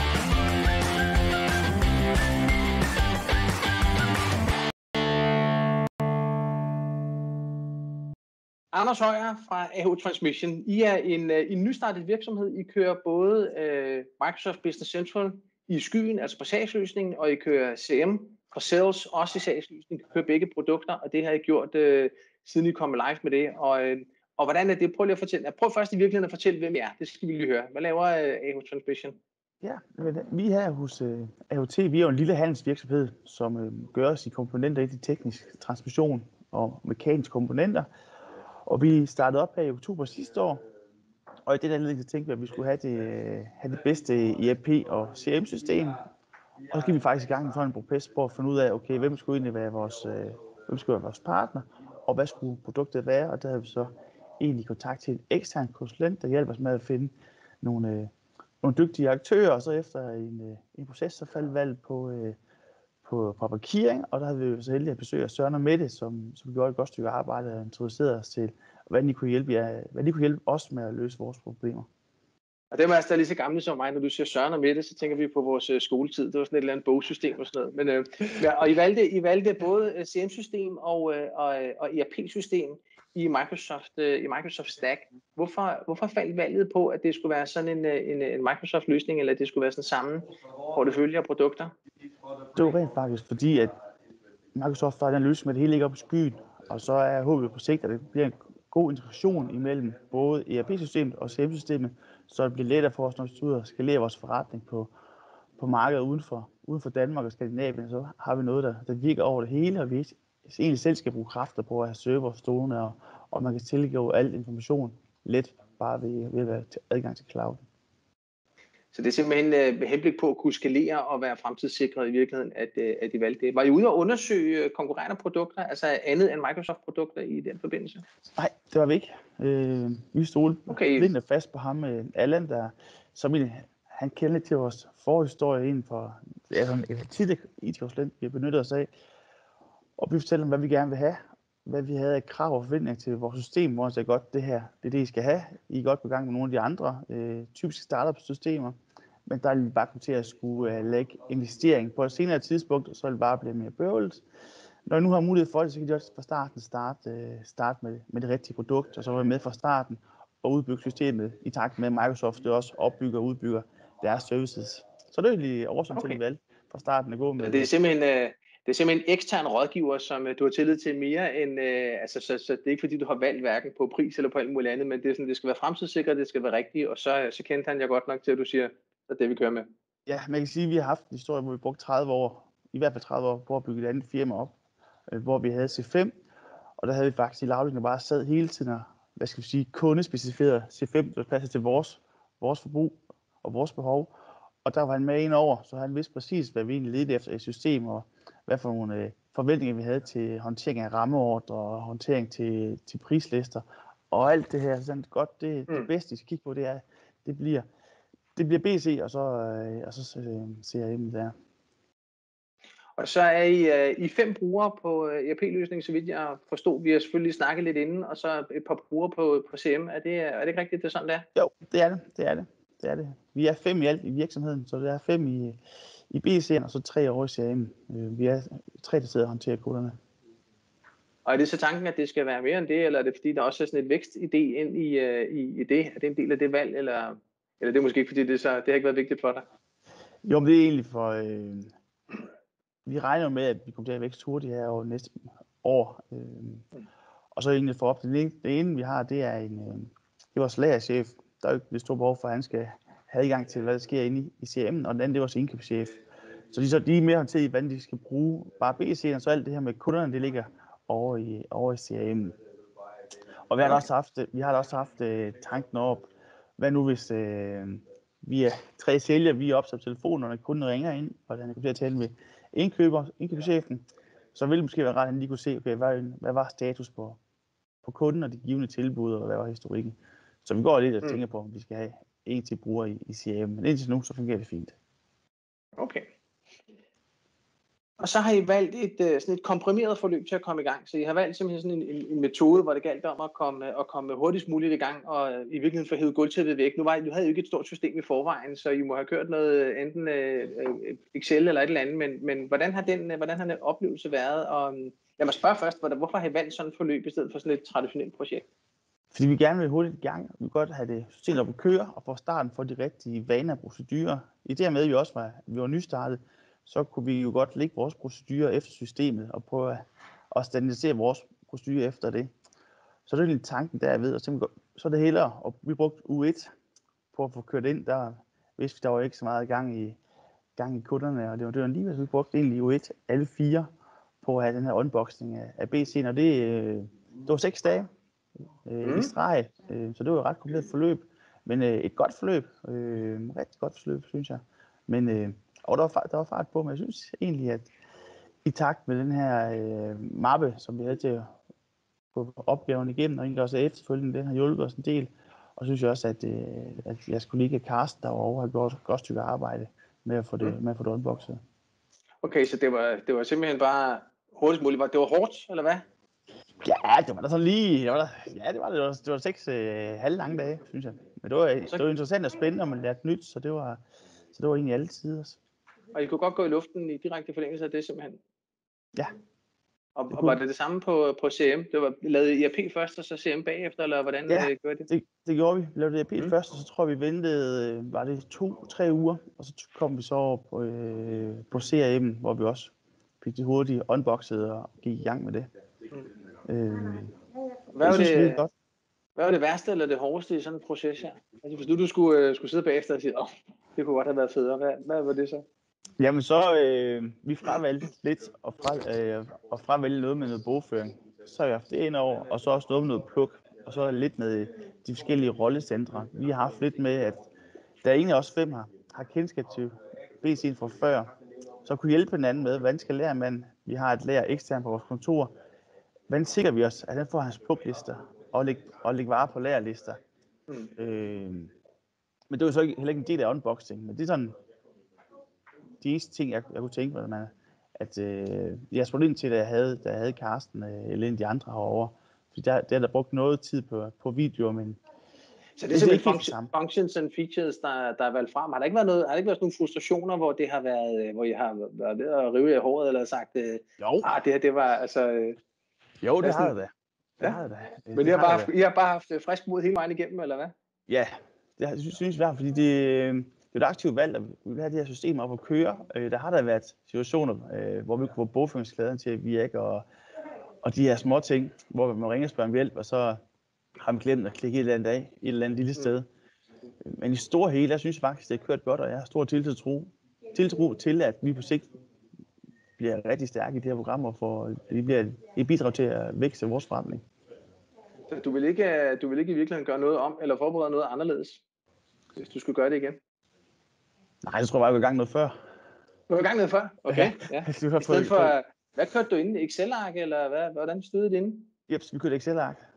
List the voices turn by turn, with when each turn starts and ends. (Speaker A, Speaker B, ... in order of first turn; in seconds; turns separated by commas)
Speaker A: 8.7-29.2, Speaker B: 29.6-37.9, Speaker B: 38.7-40.6, Speaker B: 41.5-46.0, Speaker B: 46.7-58.1, Speaker B: 58.6-62.4, Speaker B: 63.0-71.9, Speaker A: 72.7-91.7, Speaker B: 92.5-93.7, Speaker B: 94.5-104.9, Speaker B: 105.6-117.6, Speaker A: 118.9-128.0, Speaker B: 128.3-138.9, Speaker A: 130.7-131.1, Speaker B: 140.0-154.2, Speaker B: 154.8-167.7, Speaker A: 165.9-166.2, Speaker A: 167.4-179.7, Speaker B: 180.1-184.5, Speaker B: 185.1-186.1, Speaker B: 186.8-194.1, Speaker B: 194.6-207.7, Speaker B: 208.3-211.3, Speaker A: 213.0-221.2, Speaker B: 221.3-225.6, Speaker B: 226.1-229.9, Speaker A: 231.2-239.4, Speaker B: 240.2-241.7, Speaker B: 242.8-246.6, Speaker B: 247.3-255.9, Speaker B: 256.5-262.4, Speaker B: 263.5-273.8, Speaker B: 274.3-277.2, Speaker B: 277.8-284.7, Speaker A: 285.8-286.1, Speaker A: 288.0-308.4, Speaker B: 309.1-322.3, Speaker B: 323.1-326.5, Speaker B: 327.1-330.0, Speaker B: 330.6-333.7, Speaker B: 334.2-337.9, Speaker B: 338.6-347.7, Speaker A: 338.8-339.1, Speaker B: 348.4-351.3, Speaker B: 352.1-361.4, Speaker A: 362.2-365.8, Speaker B: 366.6-373.8, Speaker B: 374.3-375.4, Speaker A: 375.9-378.2, Speaker A: 379.9-384.9, Speaker B: 380.1-380.4, Speaker B: 384.3-395.5, Speaker B: 396.4-397.1, Speaker A: 397.7-398.4, Speaker B: 397.8-398.5, Speaker A: 399.1-405.4, Speaker B: 406.0-417.2, Speaker B: 417.8-421.1, Speaker B: 421.6-425.3, Speaker B: 426.1-430.0, Speaker B: 430.8-431.5, Speaker B: 432.3-434.3, Speaker B: 435.8-444.8, Speaker A: 445.6-455.4, Speaker B: 445.7-446.5, Speaker B: 453.8-454.1, Speaker B: 456.0-458.5, Speaker A: 456.2-456.5, Speaker A: 457.9-460.5, Speaker B: 460.9-469.8, Speaker B: 470.6-473.2, Speaker B: 473.8-476.1, Speaker B: 476.8-481.7, Speaker B: 482.8-487.0, Speaker A: 488.1-491.4, Speaker A: 492.1-493.0, Speaker B: 494.2-495.3, Speaker A: 496.1-501.5, Speaker B: 496.9-498.4, Speaker B: 501.7-502.6